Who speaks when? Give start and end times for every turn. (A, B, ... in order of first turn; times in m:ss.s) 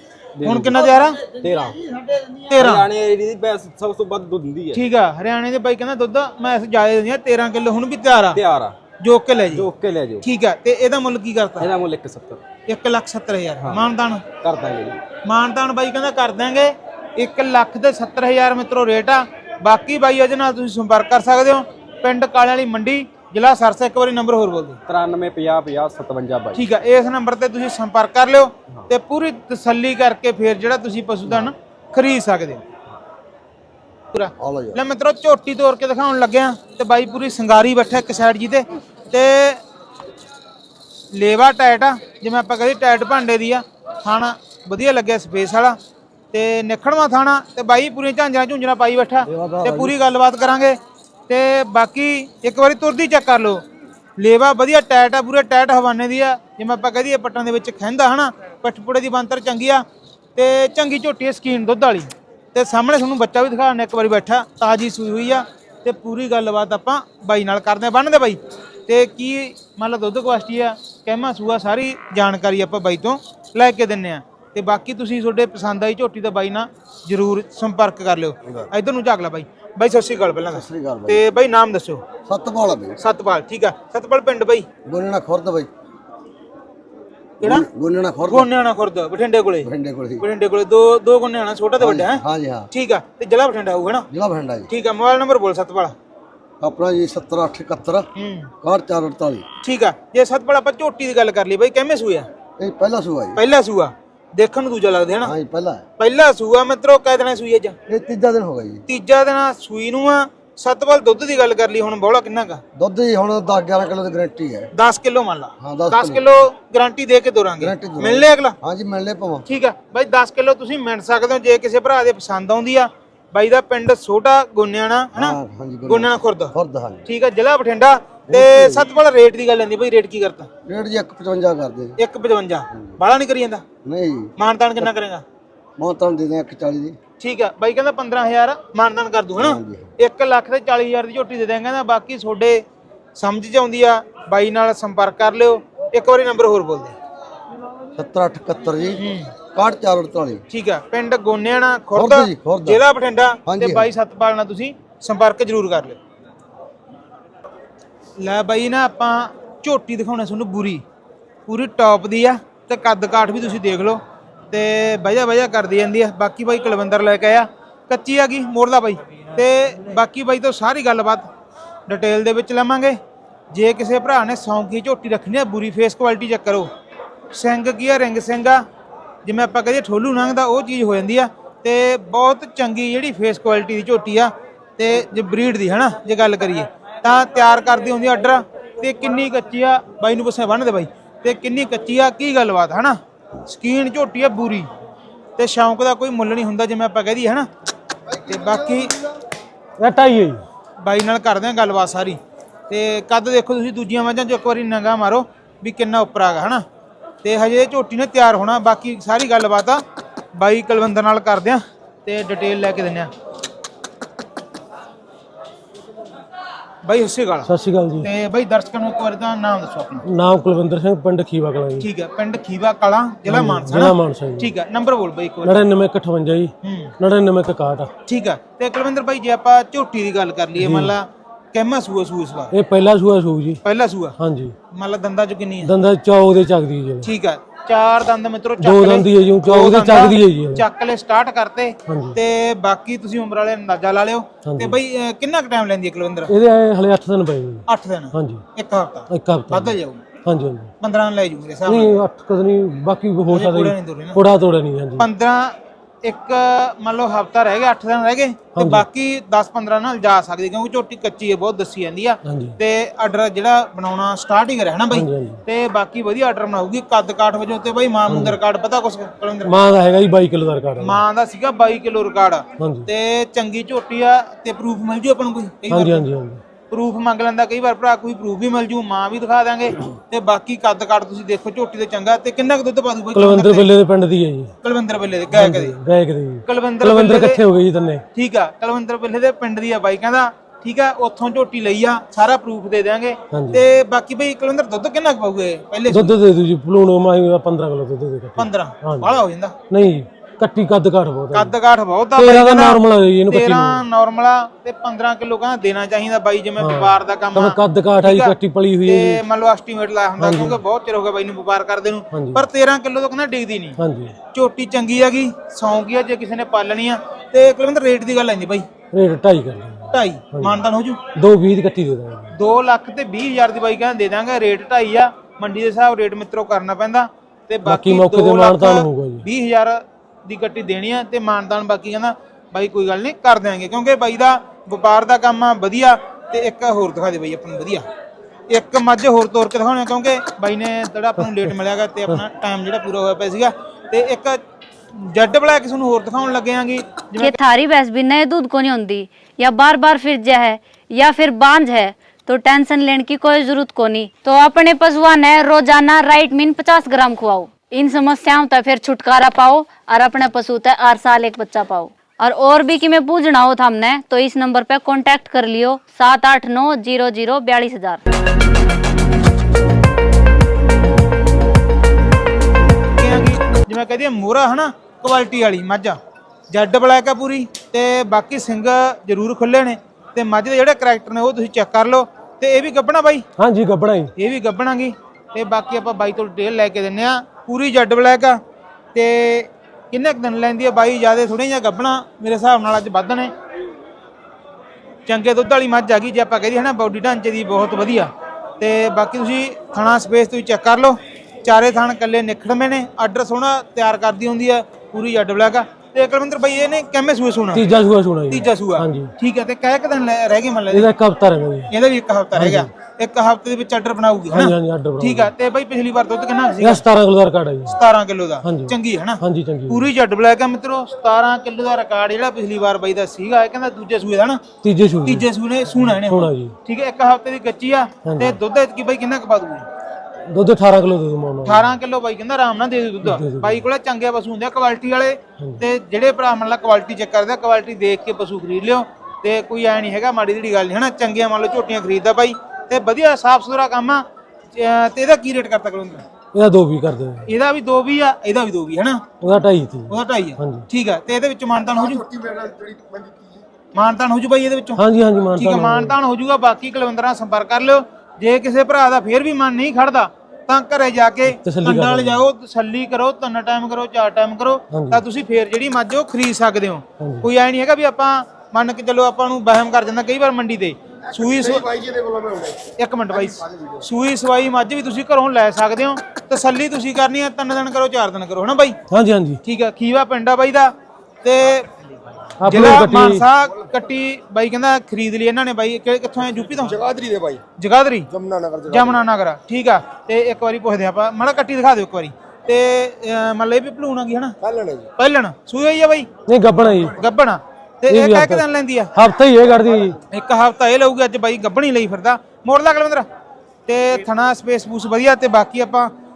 0:00.4-0:04.8 A
0:00.4-0:01.2 B
0:02.5-0:02.9 B
0:04.7-0:08.4 B
0:08.3-0:08.8 A
0:09.0-0:09.7 B
0:09.5-0:10.2 A
0:10.2-0:11.7 B
0:11.6-0:12.4 A
0:12.7-0:14.2 B
0:13.6-0:13.9 A
0:14.4-0:15.0 A
0:15.2-0:24.8 B
0:24.9-0:26.6 A
0:26.6-0:32.6 B
0:34.1-0:39.6 B
0:34.4-0:34.8 C
0:41.1-0:45.8 B
0:46.3-0:50.8 B
0:49.2-0:50.0 C
0:51.3-0:53.6 B
0:54.2-0:59.8 B
1:00.4-1:22.0 B
1:20.5-1:21.2 C
1:22.3-1:23.0 C
1:23.0-1:24.7 B
1:24.9-1:25.7 C
1:27.4-1:28.5 C
1:28.3-1:29.7 B
1:29.6-1:30.2 C
1:30.2-1:34.1 B
1:31.8-1:32.7 C
1:34.1-1:34.7 C
1:34.7-1:35.9 B
1:36.6-1:38.1 C
1:38.2-1:38.5 B
1:38.6-1:39.4 C
1:39.6-1:42.3 B
1:42.6-1:43.4 C
1:43.4-1:45.3 B
1:45.2-1:45.8 C
1:46.0-1:47.8 B
1:47.9-1:48.8 C
1:48.9-1:52.6 B
1:52.8-1:54.7 C
1:54.7-1:58.6 B
1:55.6-1:56.2 C
1:57.6-1:59.5 C
1:59.5-2:06.5 B
2:05.1-2:07.1 C
2:07.1-2:10.5 B
2:08.3-2:08.9 C
2:10.6-2:12.0 C
2:12.0-2:13.6 B
2:12.7-2:13.0 C
2:13.8-2:14.9 C
2:14.4-2:15.2 B
2:15.8-2:17.0 C
2:17.2-2:22.6 B
2:19.4-2:19.9 C
2:23.2-2:27.0 B
2:28.0-2:29.0 C
2:29.0-2:29.3 B
2:29.5-2:30.4 C
2:30.5-2:36.0 B
2:32.0-2:32.8 C
2:33.5-2:33.9 C
2:38.2-2:40.8 B
2:41.5-2:51.3 B
2:51.9-2:53.0 B
2:53.5-2:56.7 B
2:57.3-2:58.6 B
2:59.2-3:14.7 B
3:15.4-3:17.5 B
3:18.3-3:19.0 B
3:19.8-3:20.4 D
3:20.8-3:22.2 B
3:22.7-3:26.6 B
3:27.2-3:29.8 B
3:30.4-3:33.1 B
3:36.8-3:37.5 B
3:37.5-3:38.1 D
3:38.0-3:40.0 B
3:40.1-3:41.9 D
3:41.8-3:45.6 B
3:43.3-3:44.5 D
3:45.4-3:47.9 D
3:46.6-3:46.9 B
3:48.1-3:52.5 B
3:50.6-3:51.0 D
3:52.5-3:53.6 D
3:53.6-3:54.1 B
3:54.2-3:54.6 D
3:54.7-3:55.7 B
3:55.6-3:57.1 D
3:57.0-4:06.3 B
3:58.6-4:00.6 D
4:01.9-4:02.2 D
4:04.5-4:04.8 D
4:06.3-4:08.4 D
4:07.7-4:10.0 B
4:09.1-4:10.7 D
4:10.8-4:11.9 B
4:11.7-4:15.1 D
4:13.3-4:14.2 B
4:15.0-4:29.6 B
4:18.6-4:18.8 D
4:22.2-4:22.6 D
4:24.9-4:25.4 D
4:28.1-4:28.4 D
4:29.4-4:31.0 D
4:30.8-4:36.1 B
4:32.6-4:32.9 D
4:35.7-4:36.4 D
4:36.7-4:43.7 B
4:43.1-4:44.5 D
4:44.6-4:45.8 B
4:45.3-4:48.0 D
4:46.5-4:47.4 B
4:48.2-4:56.2 B
4:53.3-4:53.6 D
4:55.9-5:01.6 D
4:58.4-4:59.5 B
5:01.3-5:08.3 B
5:02.2-5:03.8 D
5:06.6-5:09.2 D
5:08.9-5:13.8 B
5:10.2-5:10.6 D
5:12.1-5:12.4 D
5:13.8-5:14.1 D
5:14.3-5:18.7 B
5:18.9-5:20.6 D
5:19.9-5:21.0 B
5:21.2-5:22.3 D
5:22.4-5:37.8 B
5:27.7-5:29.3 D
5:38.5-5:44.4 B
5:41.2-5:41.5 D
5:45.0-5:47.4 B
5:47.4-6:08.0 E
6:13.0-6:16.0 B
6:16.5-6:23.2 B
6:23.4-6:24.1 D
6:24.2-6:28.4 B
6:28.9-6:33.3 B
6:35.1-6:47.6 B
6:47.5-6:49.1 D
6:48.3-6:50.9 B
6:50.7-6:51.7 D
6:51.7-6:56.8 B
6:52.3-6:52.7 D
6:54.3-6:55.3 D
6:56.6-6:57.8 D
6:57.7-7:04.4 B
6:58.4-6:59.9 D
7:04.6-7:05.3 D
7:05.0-7:09.7 B
7:05.8-7:06.5 D
7:08.0-7:08.4 D
7:10.3-7:11.7 D
7:11.4-7:24.0 B
7:13.0-7:13.6 D
7:24.6-7:26.0 B
7:26.3-7:27.3 D
7:27.3-7:29.0 B
7:29.2-7:30.7 D
7:29.9-7:32.0 B
7:31.6-7:33.4 F
7:33.8-7:34.8 B
7:34.8-7:36.0 D
7:35.4-7:51.7 B
7:41.3-7:42.2 D
7:44.7-7:45.0 D
7:47.0-7:47.3 D
7:51.2-7:52.6 F
7:52.8-7:58.8 B
7:53.1-7:53.8 F
7:58.9-7:59.4 D
7:59.4-8:00.7 B
8:01.2-8:01.7 B
8:02.4-8:03.3 D
8:02.5-8:06.8 B
8:06.7-8:07.4 F
8:07.6-8:08.1 B
8:08.1-8:09.0 F
8:08.7-8:14.3 B
8:14.4-8:14.9 F
8:15.0-8:16.1 B
8:16.3-8:17.0 D
8:17.0-8:18.9 B
8:17.9-8:20.0 D
8:20.1-8:23.0 B
8:23.7-8:25.9 B